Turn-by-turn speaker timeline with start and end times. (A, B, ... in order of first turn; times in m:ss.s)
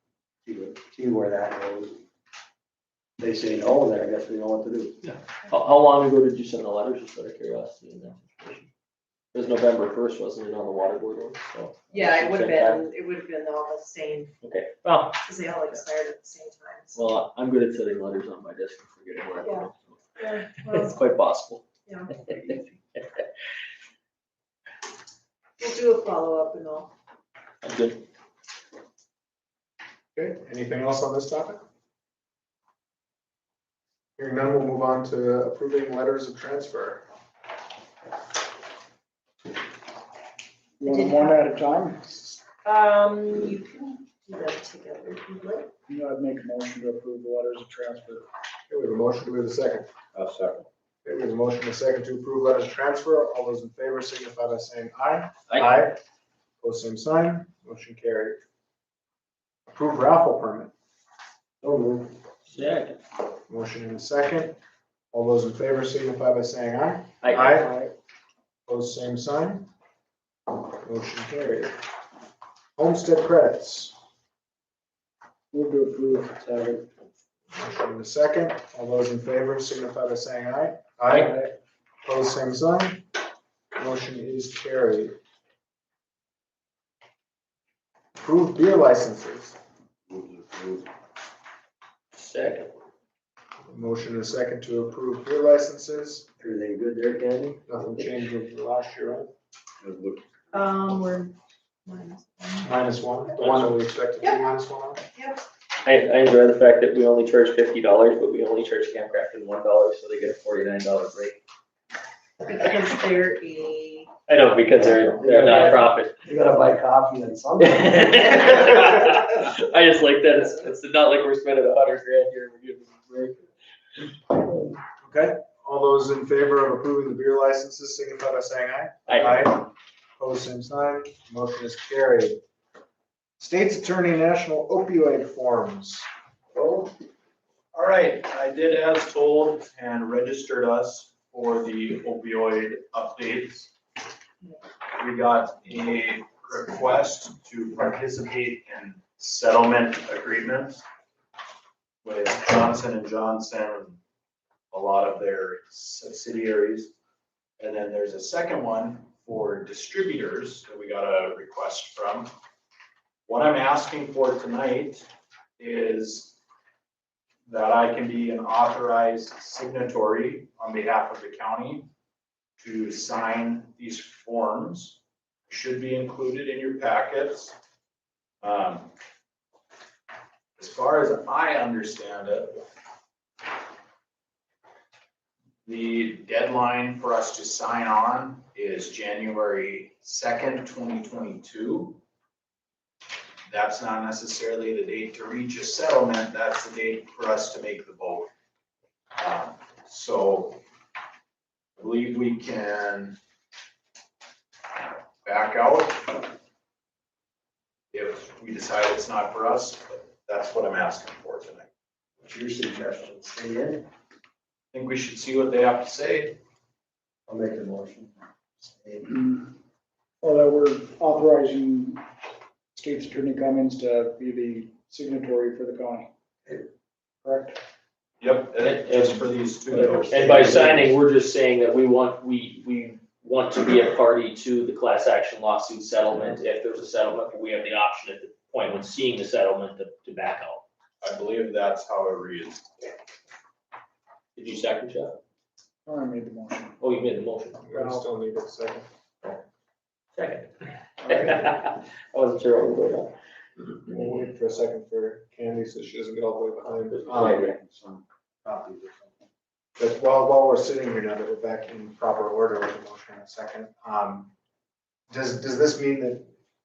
0:00.4-0:02.0 A
0:03.2-0:05.0 A
0:05.0-0:08.7 B
0:09.3-0:12.8 B
0:11.9-0:14.4 C
0:14.4-0:15.8 B
0:15.2-0:17.0 C
0:16.9-0:20.0 B
0:19.4-0:21.0 C
0:20.6-0:21.6 B
0:21.8-0:22.6 C
0:22.2-0:22.6 B
0:25.6-0:26.9 C
0:27.6-0:28.0 B
0:30.1-0:31.6 D
0:34.2-0:37.0 D
0:40.8-0:42.4 E
0:40.8-0:41.4 C
0:42.6-0:45.7 C
0:45.9-0:48.3 E
0:48.7-0:49.9 D
0:51.0-0:56.0 D
0:55.5-0:55.7 B
0:56.6-0:58.4 D
0:59.7-1:00.7 D
1:01.6-1:02.1 A
1:02.5-1:03.0 B
1:03.5-1:04.6 D
1:05.1-1:07.8 D
1:07.2-1:07.6 B
1:07.6-1:07.9 E
1:08.7-1:09.7 D
1:10.8-1:11.7 D
1:12.8-1:13.9 D
1:15.5-1:16.6 E
1:16.4-1:16.8 A
1:17.5-1:21.4 D
1:22.0-1:23.0 D
1:23.7-1:25.2 D
1:28.2-1:29.6 D
1:30.1-1:30.8 A
1:32.1-1:32.7 B
1:33.7-1:36.3 D
1:36.4-1:37.6 A
1:37.7-1:39.3 D
1:39.8-1:40.2 A
1:40.5-1:41.3 C
1:41.8-1:42.7 C
1:42.6-1:45.0 D
1:43.4-1:43.7 B
1:45.1-1:45.4 C
1:45.8-1:51.4 B
1:52.4-1:54.1 C
1:54.3-1:56.1 B
1:54.8-1:58.6 A
1:57.6-2:03.4 B
2:05.0-2:12.4 D
2:09.1-2:09.5 B
2:13.4-2:16.0 D
2:16.5-2:16.9 A
2:17.7-2:23.7 F
2:25.0-2:30.8 F
2:32.0-2:34.0 F
2:34.7-2:36.9 F
2:37.6-2:42.3 F
2:43.2-2:45.1 F
2:45.6-2:46.4 F
2:47.4-2:51.9 F
2:52.6-2:57.6 F
2:58.4-2:58.9 F
3:00.6-3:02.7 F
3:05.6-3:12.0 F
3:13.5-3:18.3 F
3:19.2-3:20.6 F
3:21.8-3:23.2 F
3:25.2-3:26.3 F
3:27.9-3:31.7 F
3:32.2-3:33.8 A
3:34.7-3:36.4 F
3:37.3-3:39.1 A
3:39.1-3:39.5 E
3:40.2-3:42.0 E
3:42.7-3:46.1 E
3:47.2-3:47.6 E
3:48.2-3:50.9 F
3:48.6-4:00.6 B
3:49.8-3:50.8 A
4:01.0-4:02.9 F
4:04.4-4:05.2 B
4:05.8-4:06.8 E
4:06.8-4:07.6 B
4:07.7-4:08.8 D
4:07.7-4:08.0 E
4:10.1-4:10.5 B
4:11.0-4:13.1 B
4:13.8-4:17.5 D
4:16.9-4:17.6 B
4:17.1-4:19.2 A
4:19.8-4:24.3 D
4:25.1-4:26.3 D